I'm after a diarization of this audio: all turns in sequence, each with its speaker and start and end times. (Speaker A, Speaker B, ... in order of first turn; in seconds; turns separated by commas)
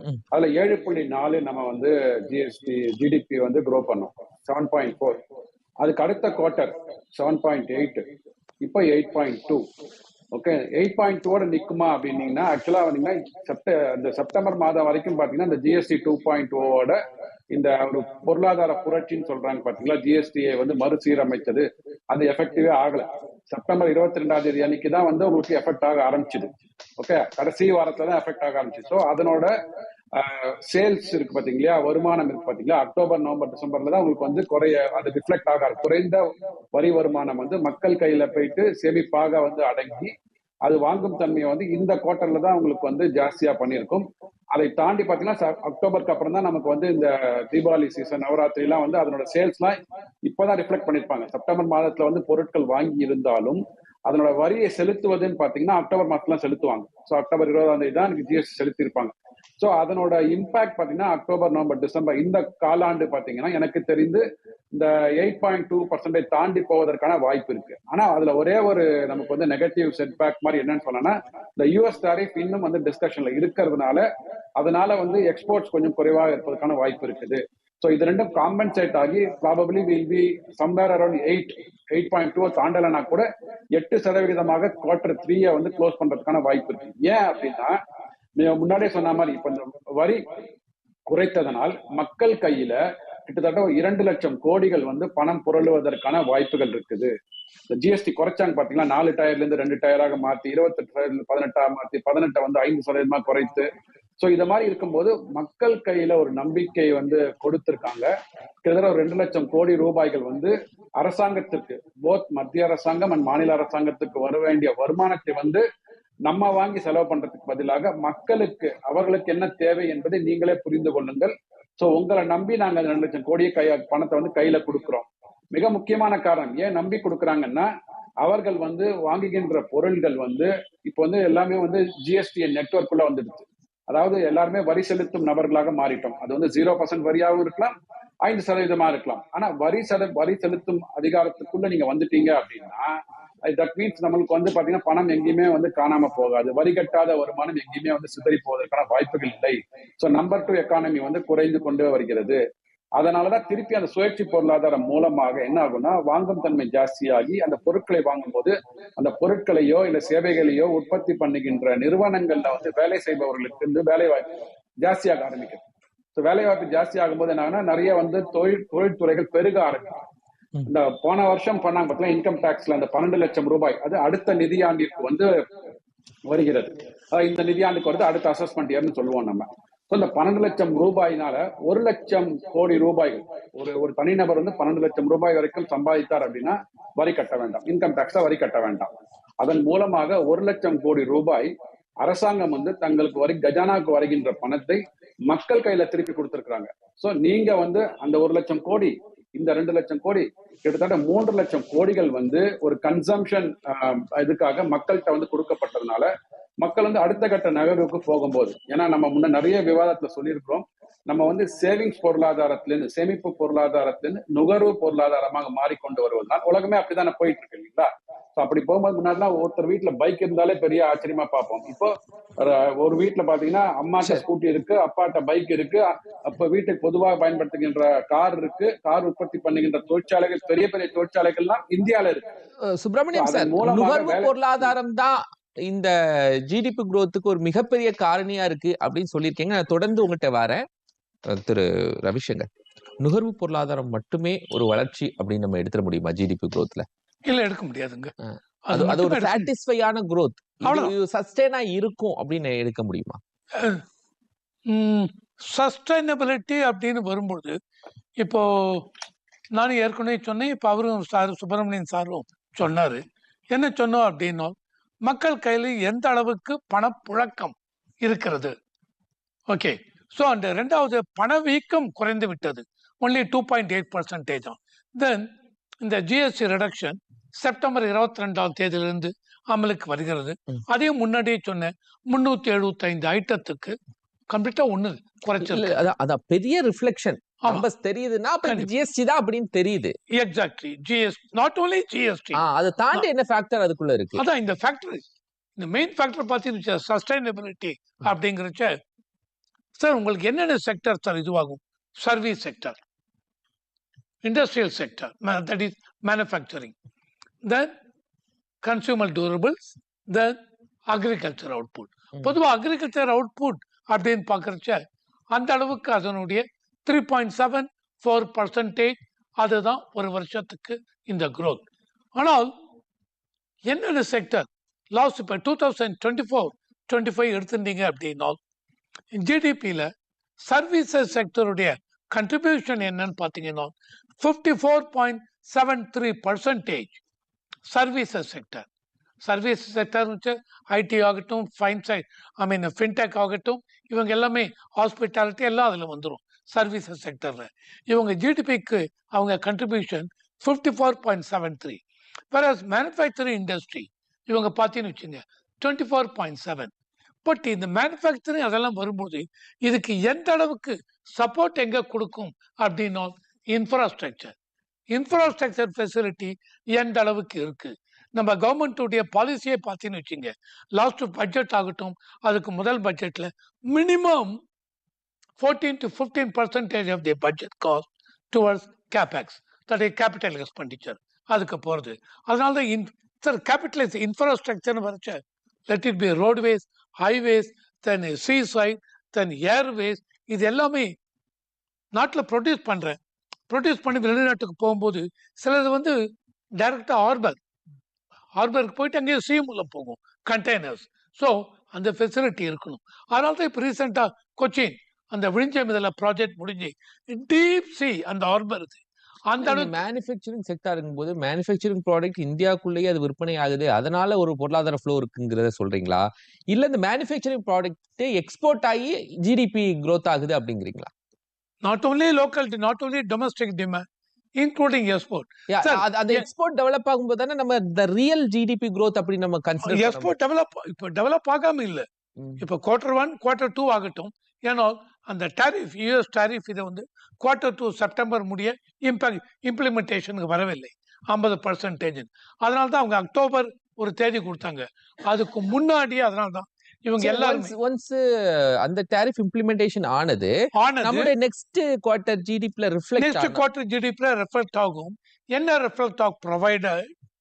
Speaker A: 0.3-5.2, Speaker A: 5.8-8.0, Speaker A: 8.6-9.6, Speaker A: 10.3-17.0, Speaker A: 17.5-29.5, Speaker A: 30.1-36.2, Speaker A: 36.7-40.1, Speaker A: 40.6-74.0, Speaker A: 74.6-87.8, Speaker A: 88.4-90.2, Speaker A: 91.1-92.8, Speaker A: 93.3-97.1, Speaker A: 97.7-103.7, Speaker A: 104.2-108.1, Speaker A: 108.6-115.6, Speaker A: 116.3-127.7, Speaker A: 128.2-137.7, Speaker A: 138.2-152.4, Speaker A: 153.0-165.6, Speaker A: 166.2-170.0, Speaker A: 170.7-175.4, Speaker A: 176.3-188.9, Speaker A: 189.4-191.5, Speaker A: 192.0-206.1, Speaker A: 206.6-232.2, Speaker B: 232.6-240.7, Speaker A: 233.1-234.7, Speaker B: 241.2-242.5, Speaker B: 243.0-246.9, Speaker C: 247.2-248.1, Speaker B: 248.3-253.2, Speaker C: 248.7-249.5, Speaker C: 250.6-250.9, Speaker C: 253.5-253.8, Speaker C: 254.7-257.6, Speaker C: 258.2-258.9, Speaker C: 259.5-268.5, Speaker C: 269.5-275.3, Speaker C: 275.8-283.8, Speaker C: 284.3-285.8, Speaker B: 285.4-289.9, Speaker C: 288.4-288.7, Speaker C: 290.1-292.4, Speaker B: 292.3-294.2, Speaker C: 294.1-295.0, Speaker C: 295.6-298.8, Speaker C: 299.8-302.8, Speaker C: 304.2-306.7, Speaker C: 307.4-307.7, Speaker C: 308.6-310.4, Speaker C: 310.9-321.6, Speaker C: 322.1-322.5, Speaker C: 323.6-328.4, Speaker C: 329.1-337.0, Speaker C: 337.6-338.6, Speaker C: 339.2-351.8, Speaker C: 352.3-356.7, Speaker C: 357.2-364.3, Speaker C: 364.9-374.4, Speaker C: 375.4-390.9, Speaker C: 391.9-393.0, Speaker C: 393.5-396.0, Speaker C: 396.6-397.4, Speaker C: 398.4-409.8, Speaker B: 409.4-420.9, Speaker C: 421.6-423.8, Speaker C: 424.4-426.2, Speaker B: 425.5-430.1, Speaker C: 429.6-431.9, Speaker C: 432.4-447.5, Speaker B: 447.0-453.4, Speaker C: 450.5-451.1, Speaker C: 453.0-456.9